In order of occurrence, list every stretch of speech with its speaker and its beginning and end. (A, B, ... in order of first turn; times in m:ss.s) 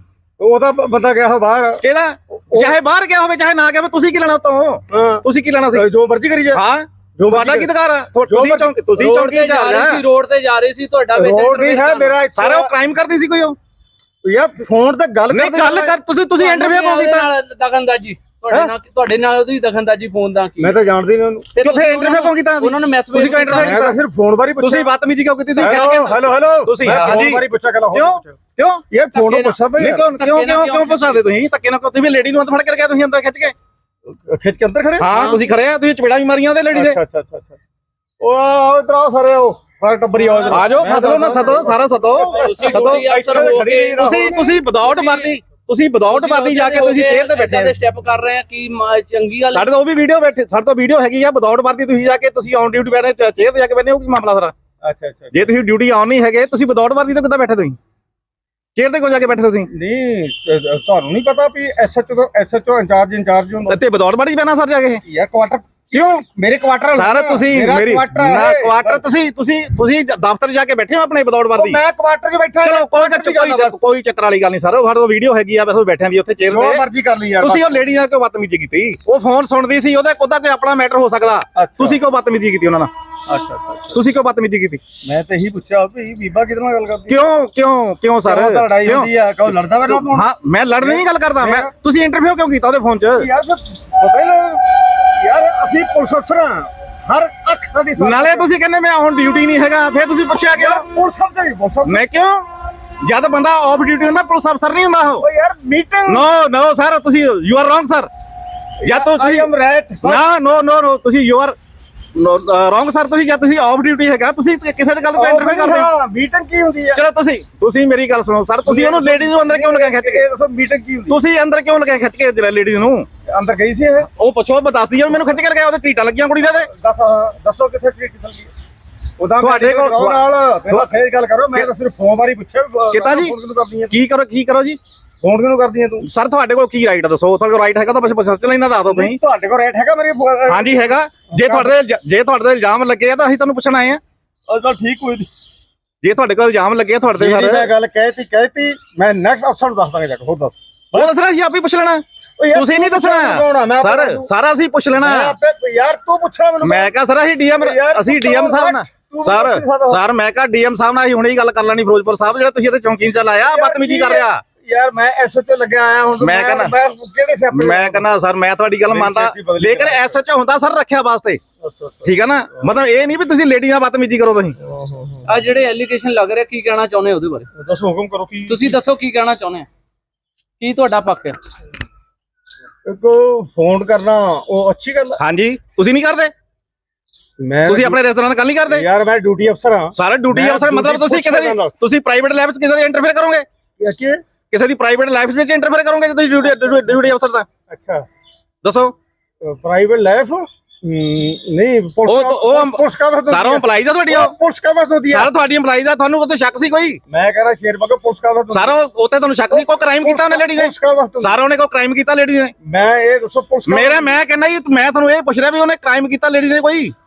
0:00.4-0:01.8 A
0:01.8-0:05.9 B
0:04.9-0:06.6 A
0:06.5-0:10.0 B
0:07.2-0:07.7 A
0:08.3-0:08.8 A
0:09.0-0:12.2 C
0:11.1-0:12.7 A
0:12.3-0:13.6 B
0:14.2-0:16.0 A
0:15.3-0:17.3 B
0:16.4-0:20.8 C
0:20.6-0:21.5 A
0:21.6-0:23.9 C
0:21.6-0:24.0 B
0:23.6-0:24.9 A
0:24.6-0:28.8 B
0:25.6-0:28.4 A
0:28.9-0:30.0 A
0:29.1-0:31.2 C
0:29.8-0:33.6 B
0:34.1-0:35.1 A
0:35.0-0:37.0 B
0:35.2-0:35.4 C
0:36.7-0:37.6 A
0:38.2-0:44.5 A
0:40.5-0:47.8 B
0:42.2-0:45.4 C
0:46.1-0:49.7 C
0:49.5-0:54.5 B
0:54.8-0:55.5 A
0:55.3-0:57.8 B
0:58.8-0:59.7 B
0:59.7-1:03.8 A
1:03.7-1:05.0 B
1:05.0-1:09.0 A
1:05.9-1:06.2 B
1:06.9-1:11.8 B
1:11.6-1:13.8 A
1:12.6-1:16.8 B
1:16.5-1:17.9 A
1:17.4-1:22.9 B
1:21.6-1:22.0 A
1:23.3-1:24.0 A
1:23.9-1:24.8 B
1:25.0-1:27.2 A
1:27.1-1:29.1 B
1:28.2-1:30.3 A
1:29.9-1:33.3 B
1:30.8-1:31.7 A
1:33.2-1:38.5 A
1:38.0-1:40.9 B
1:40.5-1:42.0 A
1:41.8-1:42.5 B
1:43.0-1:45.3 B
1:45.2-1:46.3 A
1:46.1-1:48.1 B
1:48.8-1:49.5 B
1:48.8-1:50.2 A
1:50.0-1:51.6 B
1:52.2-1:55.9 B
1:55.2-1:57.0 A
1:56.9-2:00.2 B
1:58.7-2:01.2 A
2:01.1-2:03.1 B
2:03.3-2:04.1 A
2:04.0-2:06.7 B
2:06.4-2:08.5 A
2:09.2-2:14.0 A
2:09.4-2:10.8 B
2:12.9-2:13.4 B
2:13.9-2:14.8 B
2:15.2-2:16.0 A
2:16.0-2:19.2 B
2:18.9-2:21.7 A
2:20.5-2:24.0 B
2:24.5-2:25.3 A
2:26.0-2:27.7 B
2:27.2-2:31.1 A
2:31.0-2:35.4 B
2:32.4-2:34.3 A
2:35.0-2:36.9 A
2:36.6-2:44.4 B
2:37.6-2:40.0 A
2:43.4-2:48.0 A
2:46.2-2:46.7 B
2:47.5-2:51.4 B
2:48.9-2:50.2 A
2:51.6-2:52.2 A
2:52.0-2:54.6 B
2:54.6-2:55.4 A
2:55.3-2:57.5 C
2:57.6-2:58.8 A
2:58.5-2:59.7 C
3:00.6-3:01.4 C
3:02.8-3:05.2 A
3:05.2-3:06.3 B
3:07.4-3:08.0 A
3:07.6-3:08.9 B
3:08.7-3:11.7 A
3:10.0-3:13.5 B
3:13.8-3:14.2 A
3:14.5-3:17.5 B
3:17.7-3:18.1 A
3:18.6-3:19.0 B
3:19.4-3:25.3 A
3:22.0-3:24.4 B
3:25.1-3:27.0 B
3:27.1-3:28.8 A
3:28.5-3:32.5 B
3:29.5-3:31.4 A
3:32.6-3:34.1 A
3:33.7-3:36.9 B